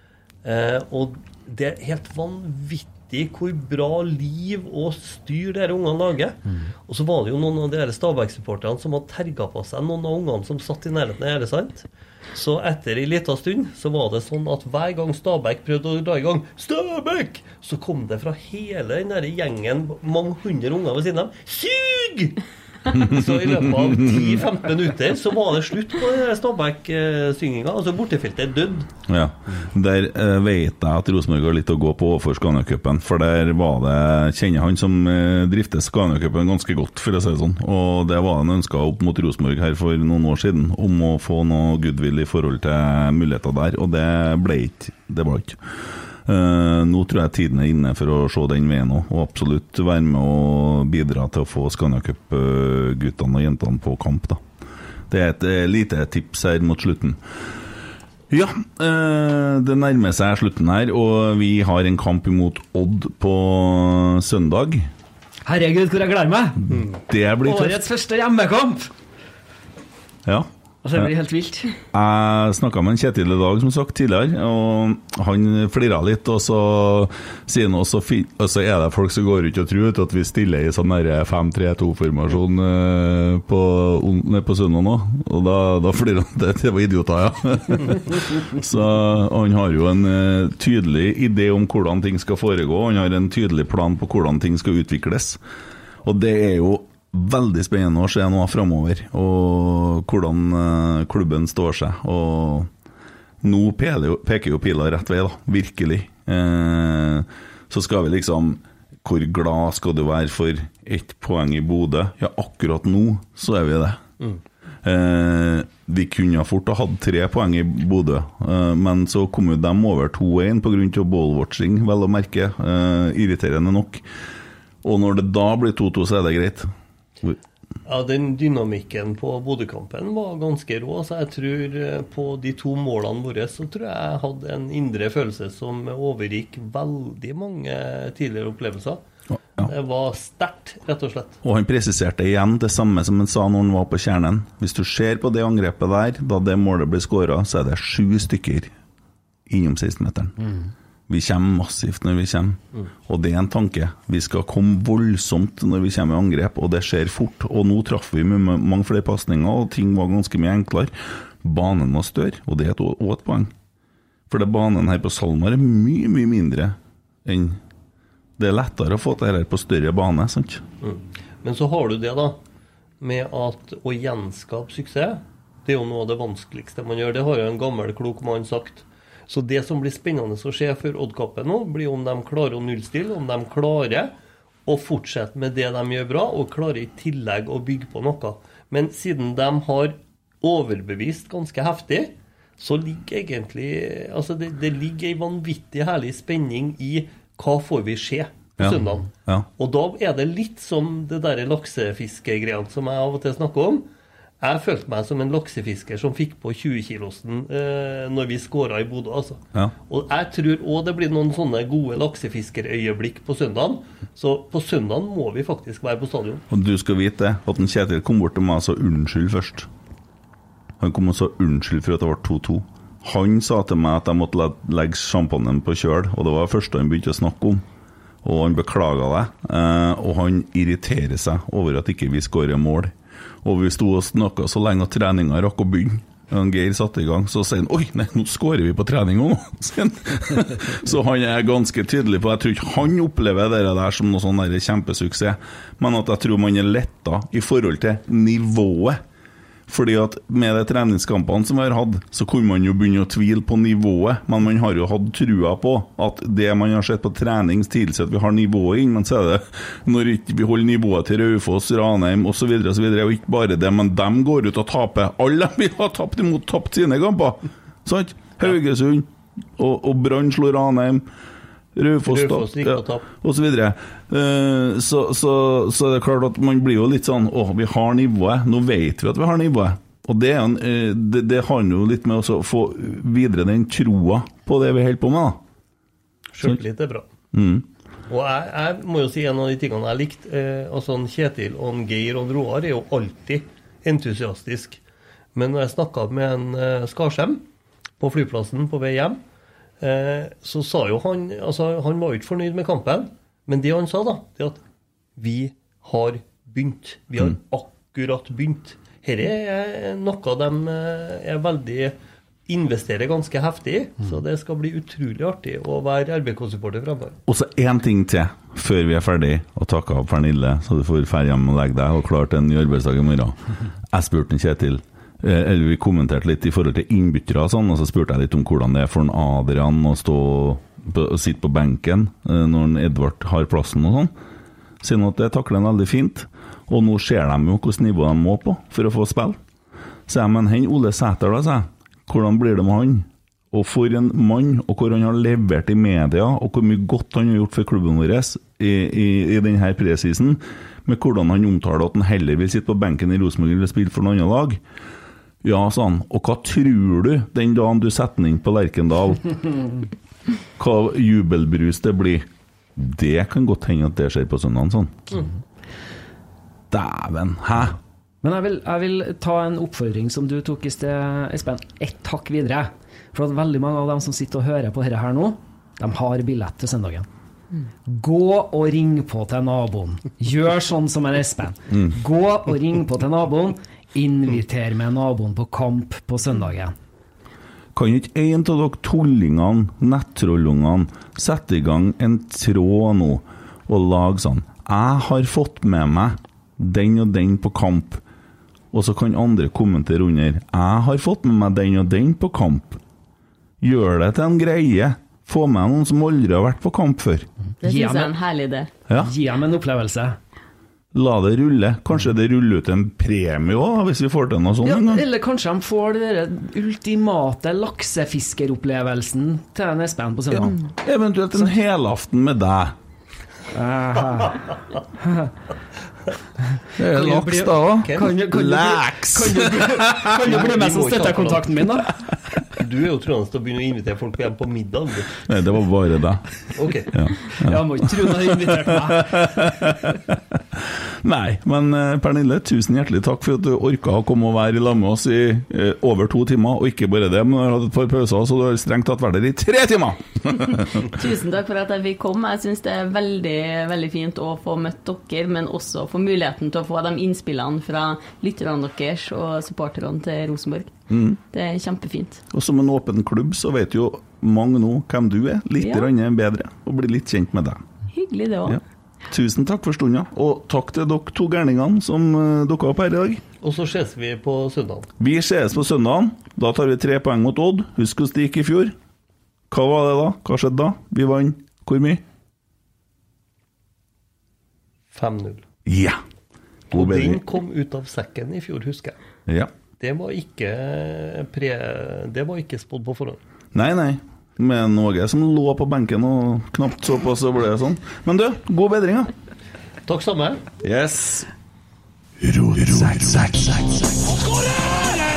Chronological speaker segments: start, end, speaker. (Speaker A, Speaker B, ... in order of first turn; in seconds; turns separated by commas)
Speaker A: 0.4-28.9, Speaker B: 22.9-24.4, Speaker B: 29.1-45.6, Speaker B: 46.2-54.4, Speaker B: 55.1-57.2, Speaker B: 58.3-64.9, Speaker C: 65.5-66.6, Speaker B: 66.7-67.9, Speaker C: 67.4-68.9, Speaker B: 70.2-71.1, Speaker C: 70.8-71.8, Speaker B: 71.9-95.4, Speaker B: 96.0-102.7, Speaker B: 103.4-114.0, Speaker B: 114.8-124.0, Speaker B: 124.8-126.7, Speaker A: 127.8-139.0, Speaker A: 139.6-141.4, Speaker B: 141.4-148.7, Speaker B: 149.5-150.5, Speaker B: 151.1-163.5, Speaker B: 164.3-167.6, Speaker B: 168.4-170.6, Speaker A: 170.8-172.4, Speaker A: 173.0-184.1, Speaker A: 184.7-203.9, Speaker B: 198.6-199.5, Speaker A: 204.4-216.4, Speaker B: 216.5-219.7, Speaker B: 220.8-227.6, Speaker B: 228.2-249.0, Speaker B: 249.7-271.1, Speaker B: 271.8-285.4, Speaker A: 272.1-273.0, Speaker A: 286.3-287.1, Speaker B: 287.3-287.7, Speaker A: 288.1-294.8, Speaker A: 295.4-297.4, Speaker A: 298.0-299.2, Speaker A: 299.8-304.6, Speaker A: 305.2-311.9, Speaker A: 312.5-317.2, Speaker B: 317.3-323.4, Speaker B: 323.9-334.1, Speaker B: 334.8-339.4, Speaker B: 340.1-354.6, Speaker B: 355.4-359.3, Speaker B: 360.6-362.2, Speaker B: 362.8-365.0, Speaker B: 366.7-367.8, Speaker C: 368.2-377.1, Speaker C: 377.9-386.8, Speaker B: 387.8-398.0, Speaker B: 398.7-402.8, Speaker B: 403.6-407.3, Speaker D: 407.6-408.7, Speaker C: 407.6-408.2, Speaker C: 408.9-410.2, Speaker B: 410.9-415.1, Speaker C: 414.6-420.6, Speaker B: 420.3-422.8, Speaker C: 423.5-424.4, Speaker C: 425.0-425.3, Speaker C: 426.6-432.1, Speaker B: 426.8-430.3, Speaker A: 427.8-428.1, Speaker A: 430.2-431.5, Speaker A: 432.6-435.2, Speaker B: 435.2-436.3, Speaker A: 436.6-437.0, Speaker B: 436.9-450.9, Speaker C: 437.3-439.6, Speaker D: 450.7-460.7, Speaker B: 460.9-461.2, Speaker D: 461.3-462.2, Speaker B: 462.3-467.6, Speaker D: 465.6-465.9, Speaker D: 467.9-468.6, Speaker B: 468.5-473.2, Speaker A: 473.4-474.9, Speaker B: 475.0-478.8, Speaker B: 479.5-482.0, Speaker A: 484.9-485.4, Speaker B: 485.7-486.0, Speaker A: 486.7-489.0, Speaker B: 486.7-487.2, Speaker A: 489.8-493.2, Speaker B: 493.5-499.1, Speaker A: 499.9-500.4, Speaker B: 500.6-501.3, Speaker B: 502.6-503.2